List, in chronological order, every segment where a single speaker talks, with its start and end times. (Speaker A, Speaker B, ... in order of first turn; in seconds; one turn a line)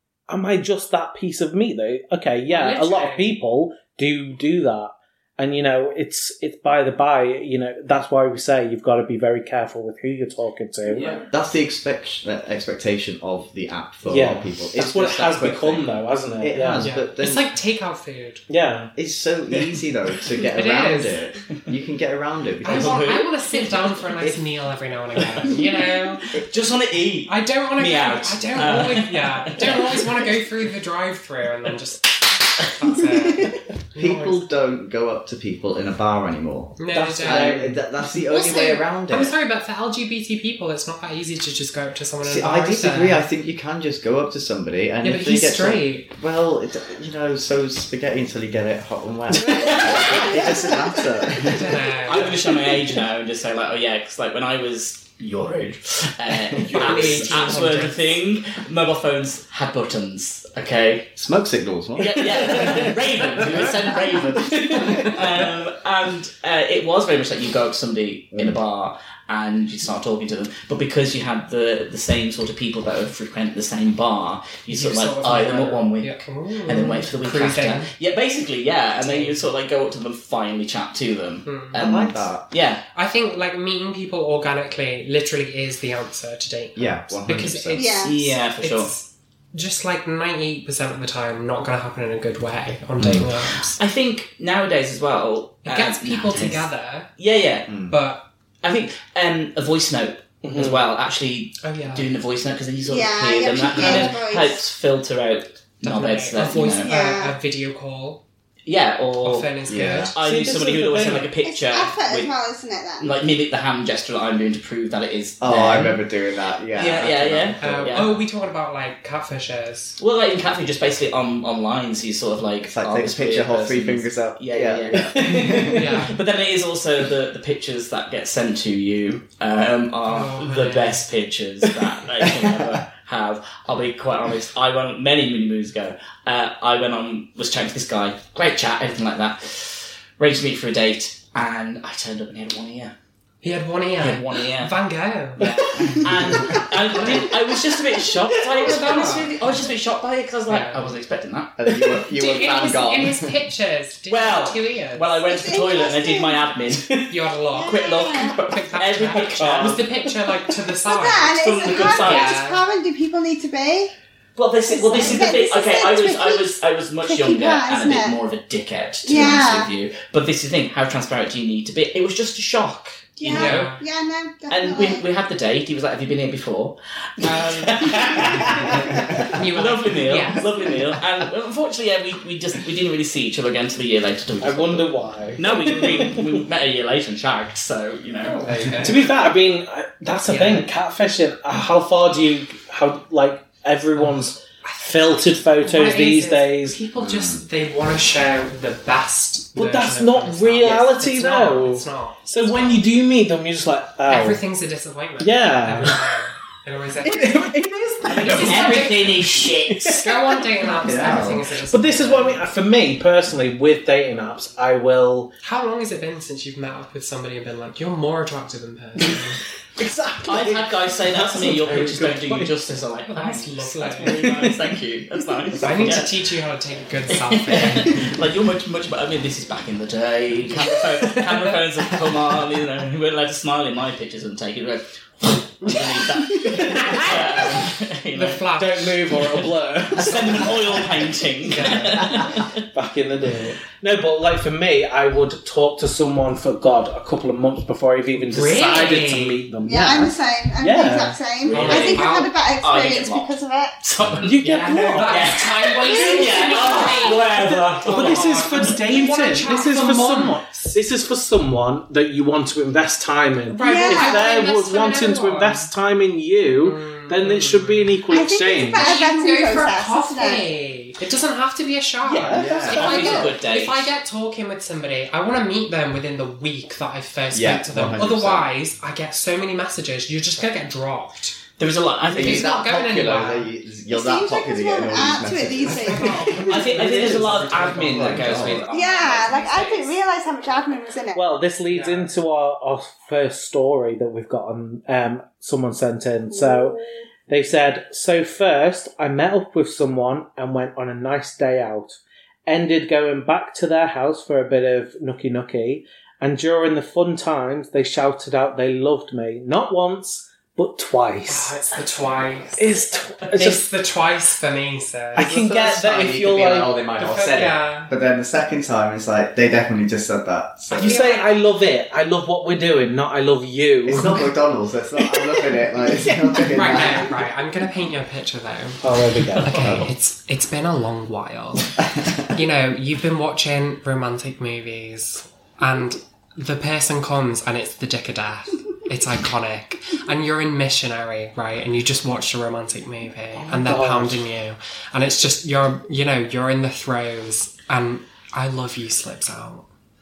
Speaker A: 0.3-11.1
Speaker B: 2.5-3.3
Speaker C: 10.9-11.2
Speaker D: 11.0-17.5
Speaker A: 14.1-16.9
Speaker B: 16.8-18.4
Speaker A: 18.5-18.9
Speaker D: 18.9-23.2
Speaker B: 20.5-21.2
Speaker B: 22.6-26.3
Speaker C: 22.6-23.9
Speaker C: 26.2-30.3
Speaker B: 27.3-34.5
Speaker D: 34.0-39.4
Speaker B: 36.8-37.6
Speaker A: 36.9-37.8
Speaker B: 38.2-43.3
Speaker D: 42.2-52.3
Speaker B: 45.0-46.1
Speaker C: 49.6-50.3
Speaker B: 51.4-52.3
Speaker C: 52.1-61.1
Speaker D: 56.6-57.5
Speaker B: 56.6-58.2
Speaker D: 61.1-63.6
Speaker C: 62.0-82.8
Speaker A: 64.4-65.2
Speaker D: 68.3-68.6
Speaker B: 74.7-77.9
Speaker B: 79.0-79.4
Speaker B: 81.5-81.9
Speaker D: 81.8-82.4
Speaker B: 82.9-93.8
Speaker D: 86.8-88.0
Speaker E: 87.7-88.2
Speaker C: 88.0-88.9
Speaker D: 93.0-93.2
Speaker C: 93.2-97.7
Speaker B: 95.7-97.1
Speaker D: 97.7-98.0
Speaker B: 97.8-98.2
Speaker C: 98.6-106.9
Speaker A: 100.4-100.8
Speaker B: 101.6-102.1
Speaker E: 102.8-104.6
Speaker B: 105.8-108.2
Speaker E: 106.8-107.3
Speaker C: 108.7-112.3
Speaker B: 109.2-110.1
Speaker D: 109.7-110.1
Speaker A: 110.2-111.3
Speaker E: 111.4-113.2
Speaker C: 113.0-116.0
Speaker D: 115.4-118.2
Speaker C: 116.7-118.1
Speaker B: 117.6-120.0
Speaker C: 120.0-142.9
Speaker D: 122.7-125.8
Speaker A: 124.9-125.8
Speaker B: 125.5-126.2
Speaker B: 130.1-131.1
Speaker B: 143.4-145.5
Speaker C: 144.0-144.8
Speaker C: 145.4-151.5
Speaker A: 145.4-147.5
Speaker B: 146.9-147.3
Speaker A: 148.1-149.1
Speaker B: 148.5-149.3
Speaker B: 150.5-150.9
Speaker D: 151.6-153.3
Speaker B: 152.1-155.2
Speaker C: 154.1-157.0
Speaker E: 155.2-156.5
Speaker B: 157.1-162.6
Speaker E: 157.5-158.4
Speaker C: 157.7-159.9
Speaker A: 159.4-160.1
Speaker E: 160.8-163.9
Speaker C: 161.2-162.4
Speaker C: 164.3-173.7
Speaker E: 164.7-168.2
Speaker E: 169.0-169.7
Speaker E: 173.2-175.0
Speaker B: 173.3-173.8
Speaker C: 174.5-188.4
Speaker B: 177.2-180.5
Speaker A: 177.8-179.2
Speaker A: 184.4-186.4
Speaker B: 188.2-189.1
Speaker A: 188.8-196.8
Speaker B: 190.3-190.7
Speaker B: 194.0-195.0
Speaker B: 195.6-202.8
Speaker D: 197.0-197.4
Speaker A: 199.6-204.4
Speaker B: 204.1-209.2
Speaker A: 205.2-206.1
Speaker A: 207.0-215.3
Speaker C: 208.0-210.1
Speaker B: 210.0-212.4
Speaker D: 210.8-211.5
Speaker B: 215.4-219.4
Speaker A: 219.8-222.5
Speaker C: 220.2-226.2
Speaker B: 223.1-224.5
Speaker A: 224.0-224.6
Speaker B: 225.6-228.1
Speaker C: 227.1-238.4
Speaker A: 231.1-231.5
Speaker A: 236.4-237.2
Speaker B: 236.5-237.6
Speaker B: 238.1-239.0
Speaker A: 238.6-240.9
Speaker C: 239.2-242.6
Speaker B: 241.5-242.3
Speaker A: 241.6-242.0
Speaker A: 242.7-251.2
Speaker B: 248.2-249.5
Speaker E: 249.6-253.8
Speaker C: 251.5-258.8
Speaker B: 251.5-252.2
Speaker D: 254.0-254.3
Speaker A: 254.2-255.4
Speaker B: 254.4-260.4
Speaker E: 255.8-257.2
Speaker A: 257.3-269.0
Speaker B: 263.5-265.7
Speaker E: 263.6-264.3
Speaker B: 266.6-268.0
Speaker E: 268.1-270.5
Speaker B: 268.6-281.4
Speaker A: 272.0-273.2
Speaker D: 272.2-273.1
Speaker C: 272.4-273.9
Speaker E: 272.8-273.3
Speaker D: 277.3-278.5
Speaker C: 281.6-282.5
Speaker D: 282.1-286.1
Speaker B: 282.2-283.5
Speaker E: 283.9-286.4
Speaker B: 285.6-289.3
Speaker A: 286.3-287.3
Speaker C: 286.4-289.9
Speaker D: 287.7-288.6
Speaker E: 288.7-291.2
Speaker A: 291.1-296.8
Speaker B: 291.7-292.1
Speaker E: 296.3-297.0
Speaker A: 297.3-311.5
Speaker B: 311.2-315.5
Speaker A: 312.6-313.6
Speaker A: 315.1-316.8
Speaker D: 315.2-321.0
Speaker B: 316.9-317.9
Speaker A: 320.7-324.2
Speaker B: 320.7-321.3
Speaker D: 323.8-327.2
Speaker B: 323.9-324.3
Speaker B: 326.5-349.7
Speaker A: 328.8-329.6
Speaker C: 329.4-329.9
Speaker D: 329.6-329.9
Speaker A: 343.4-344.2